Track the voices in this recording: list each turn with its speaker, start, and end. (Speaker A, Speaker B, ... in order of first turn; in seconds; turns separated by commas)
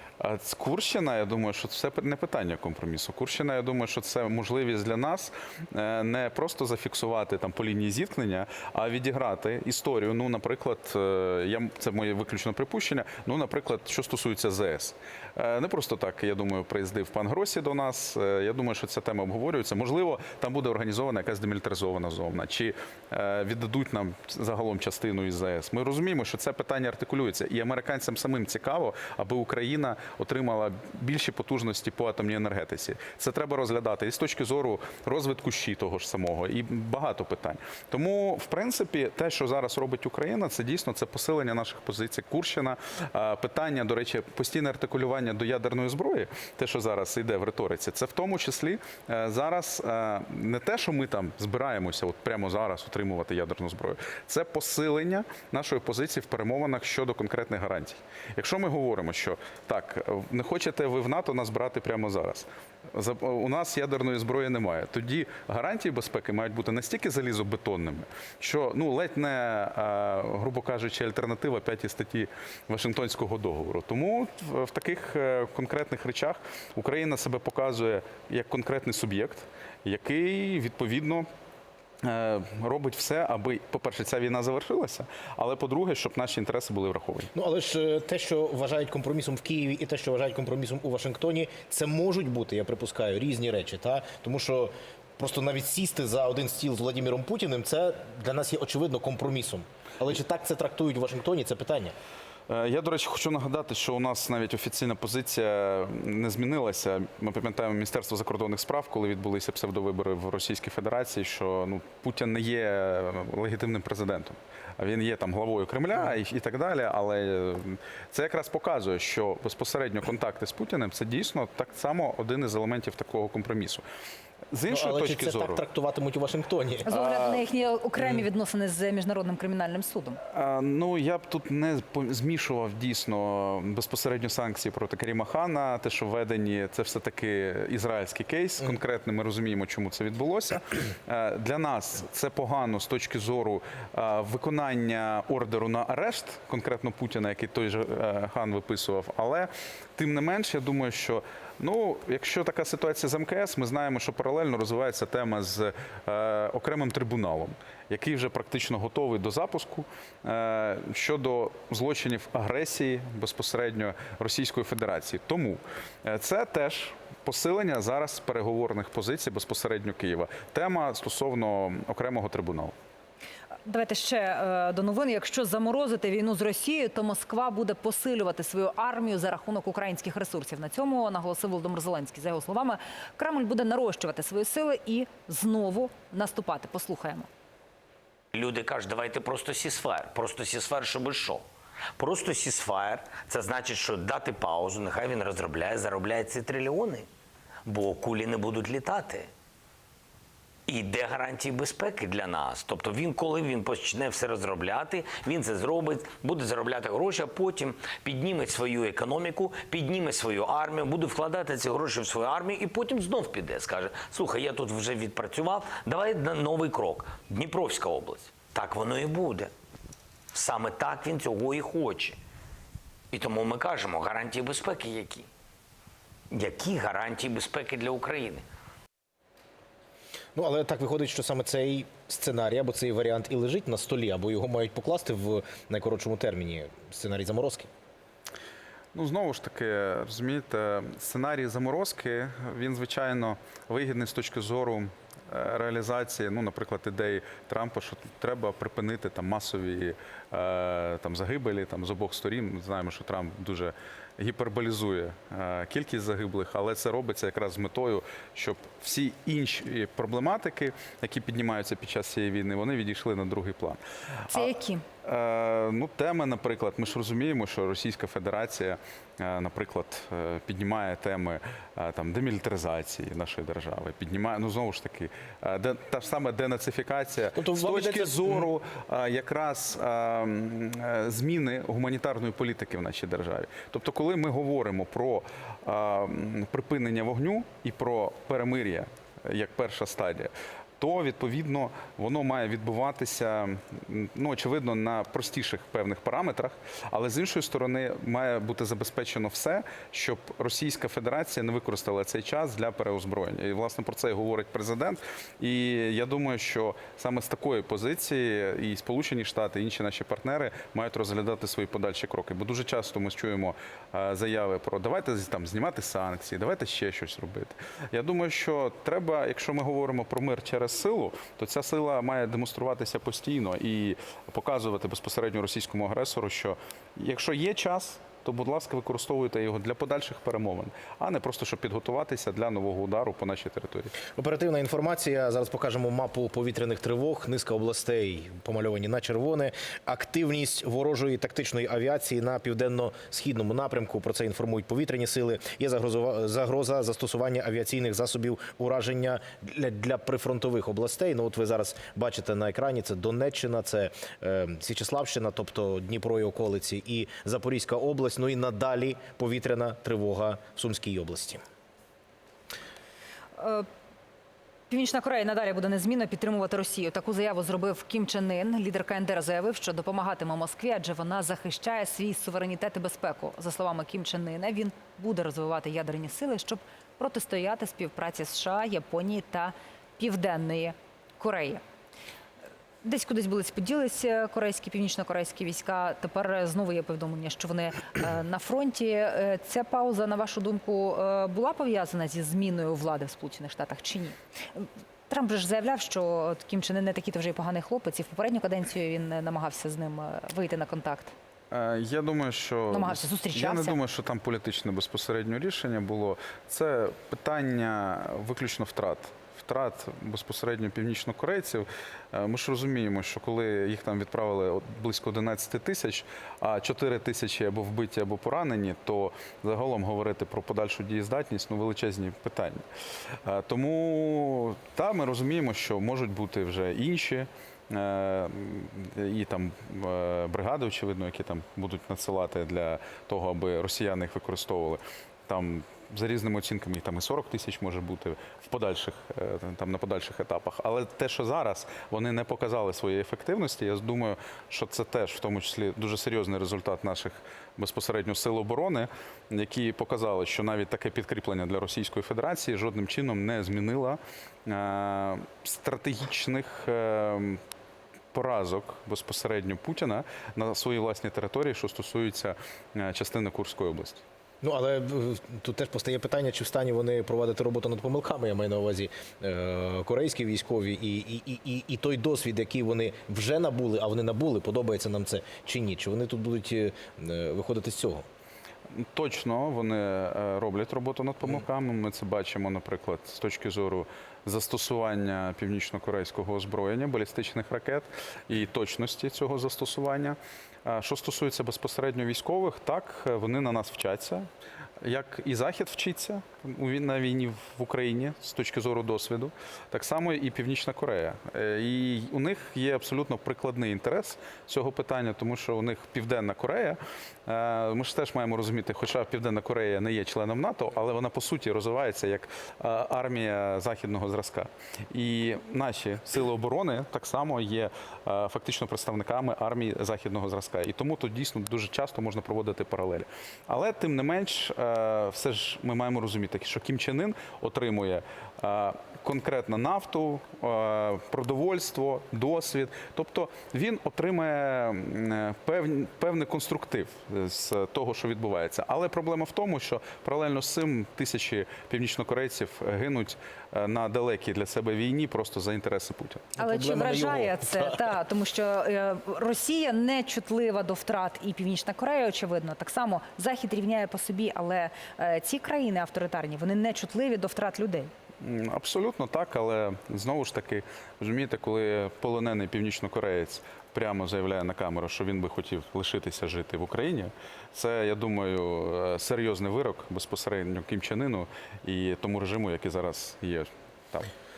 Speaker A: 0.2-81.3, Speaker A: 82.0-87.3, Speaker B: 87.3-101.9, Speaker A: 102.5-123.8, Speaker A: 124.5-125.6, Speaker B: 124.7-126.9, Speaker C: 126.8-130.2, Speaker A: 126.9-127.4, Speaker A: 130.3-172.7, Speaker C: 173.6-187.3, Speaker D: 188.3-191.4, Speaker D: 191.9-197.1, Speaker D: 197.6-199.3, Speaker D: 200.7-219.5, Speaker D: 220.3-222.2, Speaker D: 223.1-225.3, Speaker D: 226.3-228.4, Speaker B: 230.3-237.7, Speaker A: 238.9-264.5, Speaker C: 264.3-264.8, Speaker A: 265.0-333.9, Speaker B: 277.3-278.5, Speaker B: 334.1-361.4, Speaker C: 363.4-363.7, Speaker C: 364.7-381.6, Speaker C: 382.8-401.1, Speaker A: 401.5-422.6, Speaker C: 402.7-403.8, Speaker A: 423.2-457.4, Speaker A: 458.1-464.0, Speaker B: 464.4-478.0, Speaker A: 478.8-494.2, Speaker A: 494.8-546.3, Speaker B: 546.4-547.9, Speaker C: 546.4-557.9, Speaker A: 558.2-574.1